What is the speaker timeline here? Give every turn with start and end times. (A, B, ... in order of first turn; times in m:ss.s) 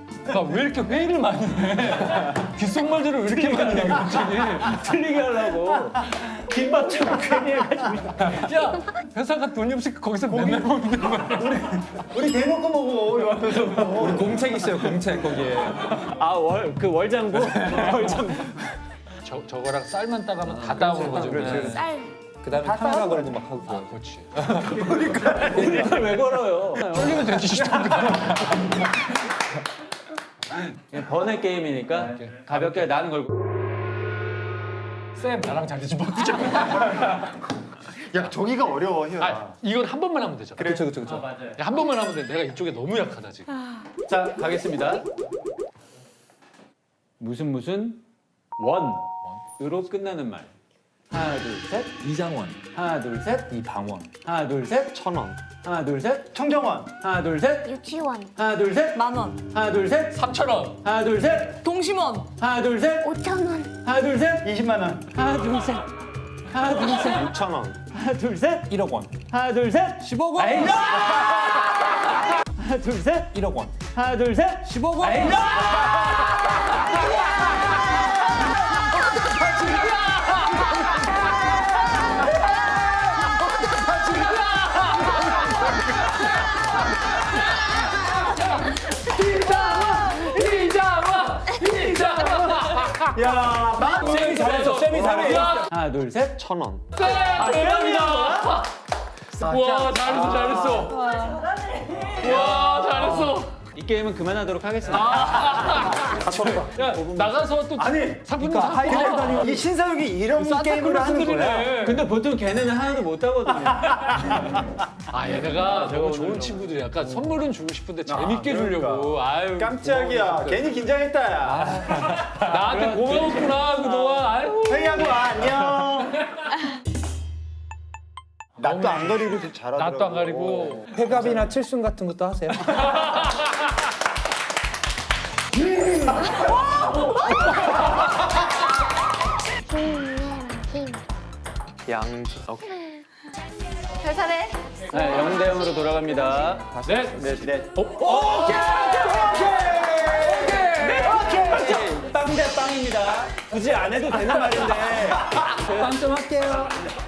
0:00.3-0:04.8 A
0:03.2-0:08.5 B
0:08.2-0:11.6 A
0:10.3-0:14.4 C
0:13.8-0:15.9 D
0:15.9-0:18.7 B
0:19.2-0:21.8 A
0:20.5-0:21.5 B
0:20.7-0:21.8 D
0:20.8-0:21.8 C
0:21.5-0:22.1 E
0:22.4-0:23.9 D
0:22.5-0:23.4 C
0:23.7-0:24.8 A
0:24.6-0:26.0 C
0:25.5-0:27.8 B
0:26.9-0:28.8 A
0:30.8-0:33.3 B
0:32.0-0:32.9 A
0:35.2-0:37.1 A
0:38.0-0:39.6 C
0:39.2-0:40.8 A
0:40.6-0:40.9 C
0:40.6-0:41.3 D
0:41.0-0:41.6 B
0:41.6-0:43.6 A
0:44.1-0:45.0 B
0:47.2-0:48.0 B
0:48.6-0:50.5 B
0:51.1-0:51.9 B
0:52.0-0:52.6 D
0:52.7-0:53.5 B
0:53.5-0:54.1 D
0:54.2-0:55.0 B
0:55.0-0:55.4 F
0:55.6-0:56.3 B
0:56.3-0:56.9 C
0:57.0-0:57.8 B
0:57.7-0:58.3 E
0:58.4-1:01.6 B
0:59.0-0:59.4 G
1:00.2-1:00.8 A
1:01.6-1:02.3 G
1:02.3-1:03.1 B
1:03.0-1:03.7 E
1:03.8-1:04.5 B
1:04.4-1:05.1 C
1:05.1-1:05.9 B
1:06.5-1:07.3 B
1:07.0-1:07.8 F
1:07.9-1:15.9 B
1:08.7-1:09.1 D
1:10.0-1:10.9 D
1:13.3-1:13.7 D
1:14.6-1:15.6 D
1:19.7-1:20.3 A
1:23.7-1:25.4 A
1:28.7-1:33.1 A
1:33.1-1:35.6 C
1:33.9-1:35.7 A
1:34.0-1:35.6 D
1:35.7-1:36.4 B
1:36.4-1:36.8 F
1:36.9-1:38.7 A
1:37.0-1:38.5 B
1:39.4-1:41.1 A
1:39.4-1:40.8 C
1:40.9-1:41.4 G
1:42.2-1:43.5 A
1:42.2-1:47.6 B
1:44.9-1:49.6 A
1:46.0-1:46.7 C
1:47.8-1:51.7 C
1:48.4-1:49.5 D
1:50.3-1:52.0 A
1:51.8-1:54.5 B
1:53.9-1:54.6 C
1:55.1-2:00.6 A
1:55.3-1:57.2 B
1:58.1-2:02.1 C
2:01.5-2:05.4 A
2:01.8-2:04.1 B
2:04.7-2:06.2 C
2:08.6-2:10.9 C
2:08.6-2:11.1 A
2:10.9-2:12.8 D
2:19.7-2:21.0 E
2:21.9-2:22.6 F
2:22.6-2:23.0 E
2:24.0-2:25.0 G
2:24.9-2:26.7 B
2:26.8-2:31.9 C
2:26.8-2:29.2 A
2:26.9-2:27.6 D
2:28.2-2:36.7 B
2:30.3-2:31.1 A
2:35.9-2:36.7 D